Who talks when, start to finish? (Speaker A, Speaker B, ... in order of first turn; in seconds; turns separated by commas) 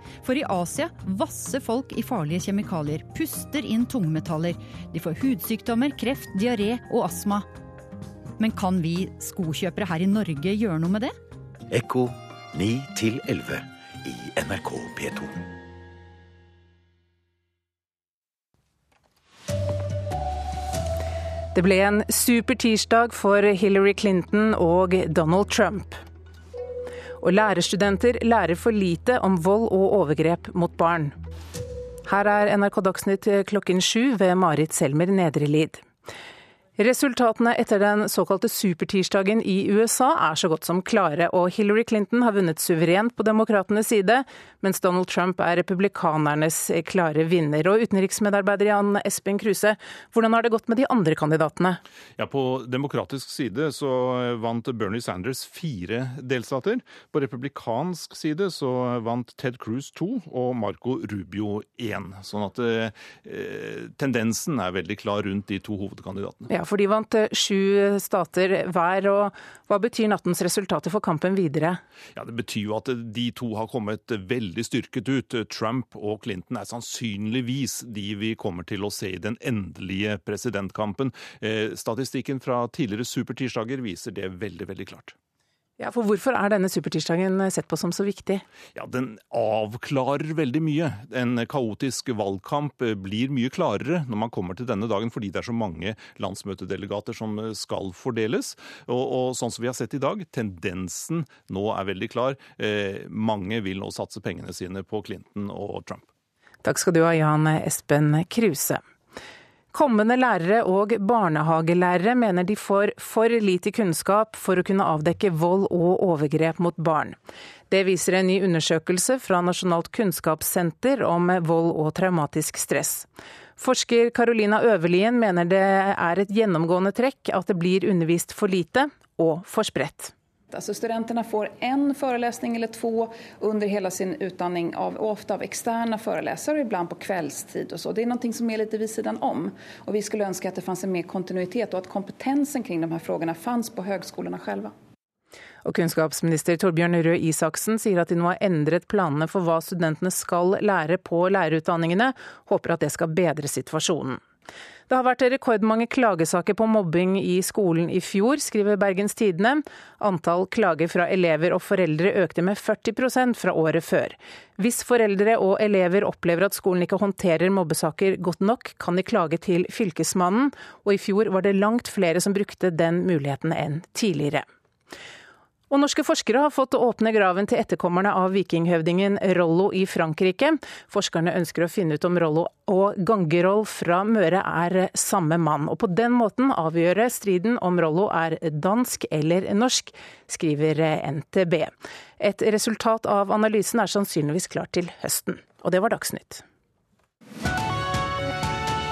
Speaker A: 0.2-7.5, Speaker A: 8.4-11.2, Speaker B: 11.7-15.5, Speaker C: 21.5-26.0, Speaker C: 27.2-31.1, Speaker C: 32.1-35.9, Speaker C: 36.8-51.8, Speaker D: 52.2-66.5, Speaker C: 66.5-71.8, Speaker D: 72.2-85.2, Speaker C: 85.8-88.4, Speaker D: 88.8-106.1, Speaker C: 106.6-108.8, Speaker C: 109.7-117.2, Speaker C: 117.7-130.1, Speaker E: 130.5-144.7, Speaker C: 145.7-154.2, Speaker C: 154.9-174.5, Speaker C: 175.7-196.4